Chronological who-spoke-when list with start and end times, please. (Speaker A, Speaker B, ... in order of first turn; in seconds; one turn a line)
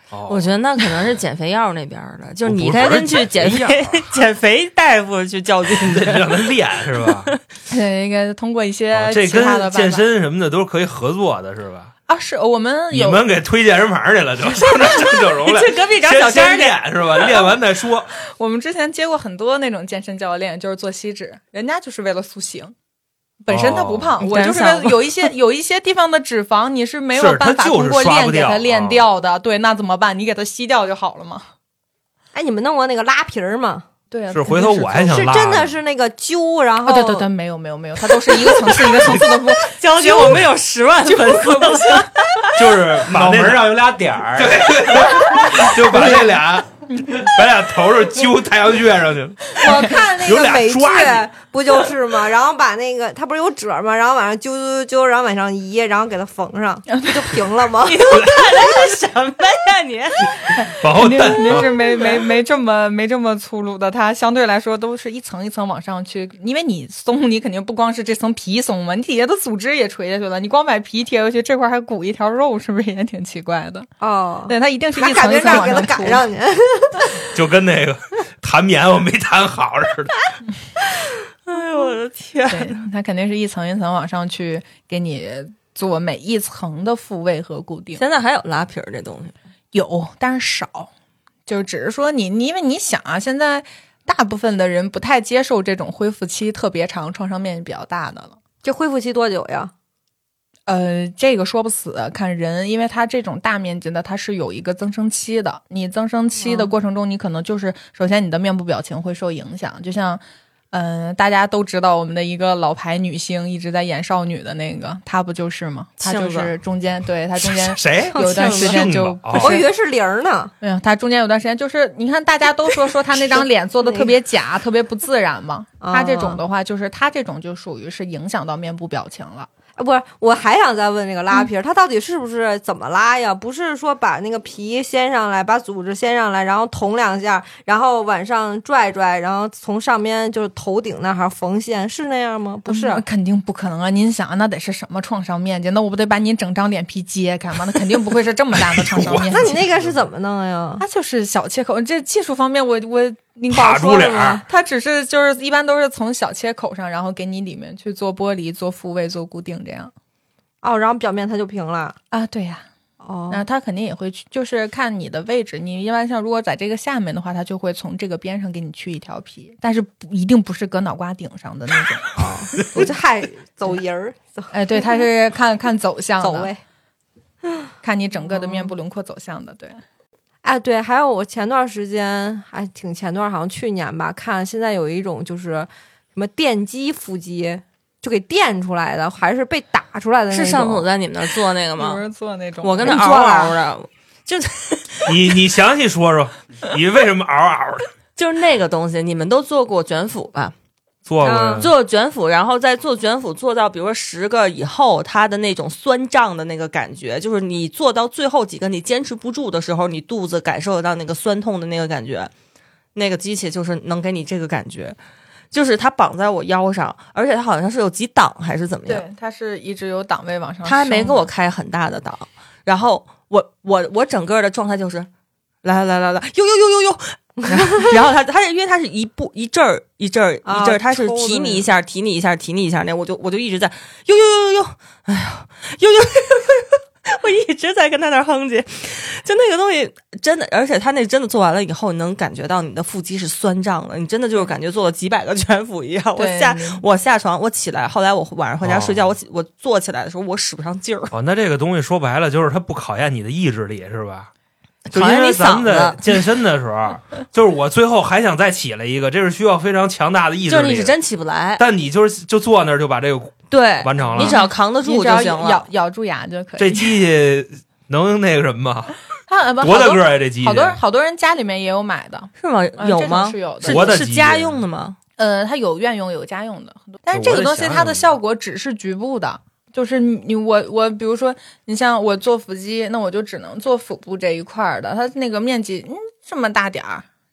Speaker A: 0.1-0.6
Speaker B: 0.3-7.4
Speaker A: 2.5-4.0
Speaker A: 5.7-7.3
Speaker C: 7.7-10.0
Speaker A: 8.9-11.9
Speaker C: 12.1-13.2
Speaker A: 12.9-18.1
Speaker B: 14.8-16.8
Speaker C: 18.2-22.7
Speaker C: 23.4-31.4
Speaker A: 23.5-24.2
Speaker B: 24.2-25.3
Speaker A: 27.1-29.1
Speaker D: 32.3-33.9
Speaker C: 34.1-35.2
Speaker A: 34.3-35.7
Speaker D: 35.1-37.3
Speaker C: 36.9-40.5
Speaker B: 39.7-42.6
Speaker C: 41.0-42.1
Speaker A: 42.6-43.8
Speaker E: 43.0-45.2
Speaker A: 44.3-51.3
Speaker C: 45.9-46.3
Speaker D: 49.6-58.6
Speaker C: 57.0-57.5
Speaker B: 57.9-60.3
Speaker A: 60.8-61.8
Speaker C: 61.0-73.9
Speaker B: 61.8-62.2
Speaker D: 74.0-77.1
Speaker C: 74.5-76.3
Speaker A: 77.3-80.3
Speaker B: 81.5-82.8
Speaker C: 82.5-88.0
Speaker B: 88.0-89.4
Speaker C: 89.7-90.9
Speaker C: 91.5-98.4
Speaker D: 98.6-99.7
Speaker C: 100.7-119.7
Speaker D: 106.4-106.7
Speaker B: 116.0-116.5
Speaker A: 117.4-119.6
Speaker D: 118.1-120.5
Speaker C: 120.6-129.5
Speaker D: 123.8-124.1
Speaker D: 125.8-126.4
Speaker D: 129.8-143.0
Speaker C: 142.7-149.6
Speaker A: 148.6-150.0
Speaker D: 149.3-150.8
Speaker C: 150.8-159.9
Speaker A: 153.5-154.4
Speaker D: 153.9-154.4
Speaker D: 160.6-162.0
Speaker C: 162.1-162.7
Speaker D: 163.0-163.4
Speaker C: 163.3-172.9
Speaker D: 172.2-175.1
Speaker C: 174.5-176.5
Speaker D: 176.2-176.6
Speaker C: 177.8-179.8
Speaker D: 178.3-178.7
Speaker D: 180.4-190.9
Speaker B: 190.3-192.0
Speaker C: 191.8-193.2
Speaker B: 192.6-195.4
Speaker D: 192.8-193.5
Speaker A: 195.1-197.9
Speaker B: 198.2-200.6
Speaker A: 201.1-201.7
Speaker D: 201.2-201.7
Speaker B: 201.6-212.3
Speaker B: 212.9-215.0
Speaker B: 215.5-219.1
Speaker C: 218.9-221.3
Speaker B: 220.7-225.1
Speaker B: 225.6-251.1
Speaker D: 227.6-227.9
Speaker D: 230.4-231.7
Speaker C: 246.2-246.8
Speaker A: 248.6-249.0
Speaker A: 251.1-254.3
Speaker B: 254.9-256.1
Speaker A: 254.9-260.9
Speaker B: 260.5-261.6
Speaker A: 261.6-264.4
Speaker B: 263.5-265.7
Speaker C: 264.1-267.0
Speaker A: 266.6-268.9
Speaker C: 269.3-274.0
Speaker A: 269.6-270.8
Speaker B: 272.4-275.0
Speaker A: 273.6-274.6
Speaker C: 275.2-287.1
Speaker A: 277.1-278.1